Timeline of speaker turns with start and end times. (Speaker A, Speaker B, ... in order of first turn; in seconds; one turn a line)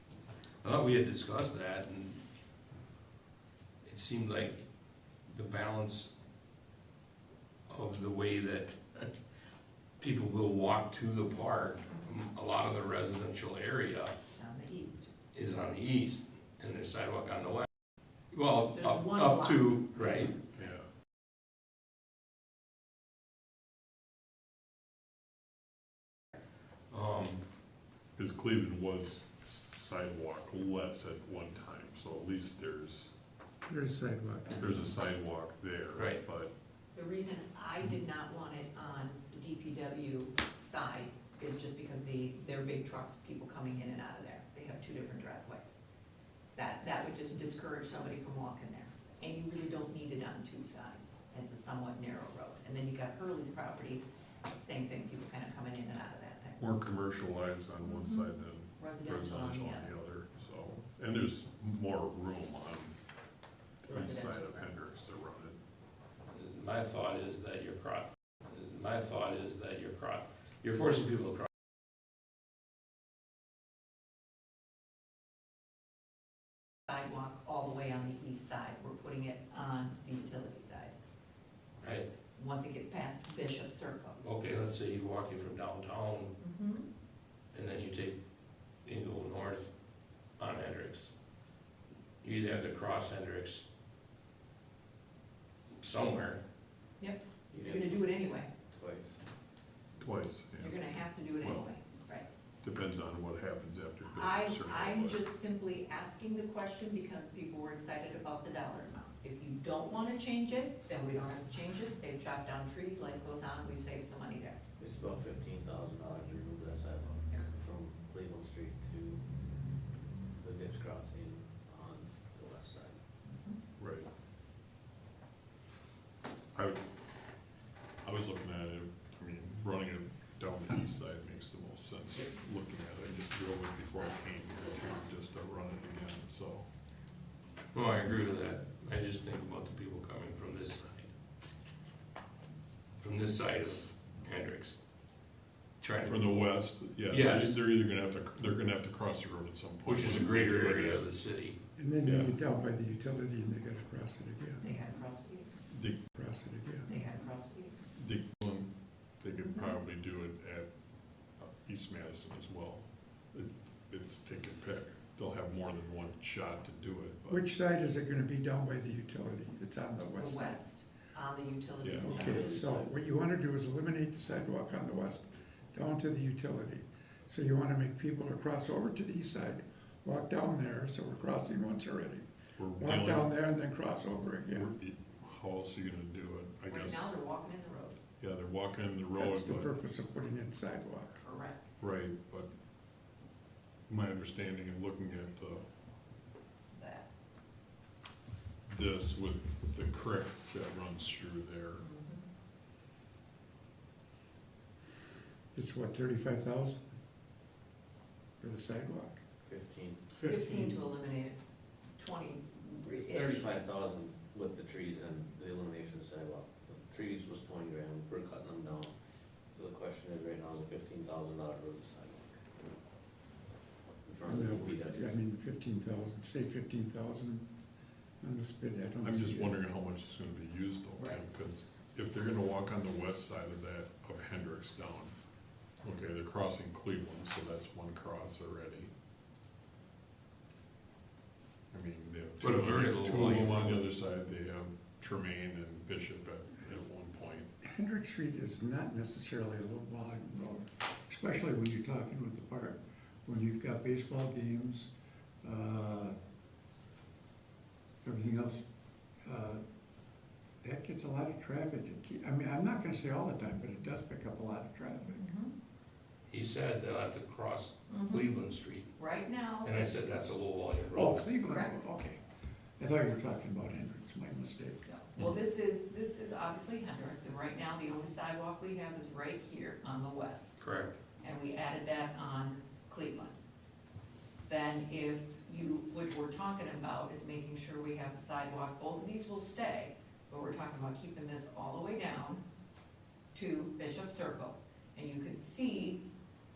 Speaker A: 0.6-2.2
Speaker A: 3.8-4.6
Speaker A: 5.3-6.1
Speaker A: 7.7-9.1
Speaker A: 10.0-14.2
Speaker B: 14.3-15.1
Speaker A: 15.3-17.7
Speaker A: 18.3-20.3
Speaker B: 18.7-20.4
Speaker C: 20.6-20.8
Speaker A: 26.9-27.4
Speaker C: 28.2-33.1
Speaker D: 33.7-35.0
Speaker C: 34.6-36.5
Speaker A: 36.0-36.2
Speaker B: 36.9-45.7
Speaker B: 46.5-56.6
Speaker C: 56.6-63.0
Speaker B: 57.8-60.0
Speaker C: 63.8-65.6
Speaker B: 63.9-64.7
Speaker A: 66.3-71.5
Speaker B: 76.9-80.9
Speaker A: 81.8-82.1
Speaker B: 82.3-84.2
Speaker A: 84.2-86.3
Speaker B: 86.4-86.9
Speaker A: 87.5-88.2
Speaker A: 88.8-89.7
Speaker A: 90.4-91.1
Speaker A: 92.2-93.7
Speaker A: 95.8-96.4
Speaker B: 97.0-98.5
Speaker E: 97.5-98.0
Speaker E: 98.7-99.2
Speaker C: 100.0-100.8
Speaker B: 100.6-102.3
Speaker C: 101.4-101.7
Speaker C: 102.6-105.2
Speaker B: 104.1-114.6
Speaker E: 114.8-119.2
Speaker E: 120.3-123.0
Speaker B: 123.3-123.6
Speaker C: 123.8-124.1
Speaker C: 126.5-126.8
Speaker C: 128.0-136.7
Speaker A: 137.7-141.1
Speaker A: 143.0-144.8
Speaker A: 145.8-146.3
Speaker C: 146.1-151.0
Speaker A: 147.1-147.6
Speaker A: 149.8-151.6
Speaker D: 151.8-154.8
Speaker C: 152.1-152.4
Speaker B: 154.6-155.5
Speaker C: 155.7-156.1
Speaker D: 156.1-157.1
Speaker B: 156.9-157.8
Speaker C: 157.9-160.7
Speaker C: 161.4-167.4
Speaker D: 167.3-170.6
Speaker B: 170.2-172.6
Speaker C: 171.8-172.3
Speaker D: 171.9-184.7
Speaker E: 172.1-172.9
Speaker C: 182.6-183.3
Speaker C: 184.5-187.1
Speaker B: 186.7-188.0
Speaker C: 188.2-189.7
Speaker D: 189.2-191.2
Speaker B: 191.2-191.8
Speaker C: 191.8-192.5
Speaker C: 193.9-195.7
Speaker B: 196.7-197.1
Speaker C: 198.7-201.8
Speaker B: 201.8-202.3
Speaker D: 205.5-206.9
Speaker D: 208.4-209.2
Speaker E: 209.4-210.1
Speaker D: 210.2-210.8
Speaker B: 210.2-211.4
Speaker B: 212.0-213.5
Speaker E: 212.9-218.9
Speaker E: 219.5-222.4
Speaker E: 224.1-225.1
Speaker D: 224.2-227.5
Speaker D: 228.2-229.6
Speaker C: 229.0-235.2
Speaker B: 231.0-231.2
Speaker C: 235.8-238.9
Speaker C: 241.7-247.5
Speaker A: 242.4-243.8
Speaker D: 247.6-254.9
Speaker D: 255.4-256.1
Speaker D: 258.0-258.7
Speaker D: 259.2-259.6
Speaker D: 260.6-265.3
Speaker B: 265.1-265.5
Speaker A: 266.3-268.9
Speaker B: 267.9-268.3
Speaker B: 269.0-269.8
Speaker A: 269.6-271.2
Speaker D: 270.9-272.2
Speaker B: 271.4-271.8
Speaker D: 272.8-274.9
Speaker B: 274.9-280.6
Speaker A: 280.6-280.9
Speaker B: 281.2-283.4
Speaker B: 284.5-292.4
Speaker B: 293.3-296.0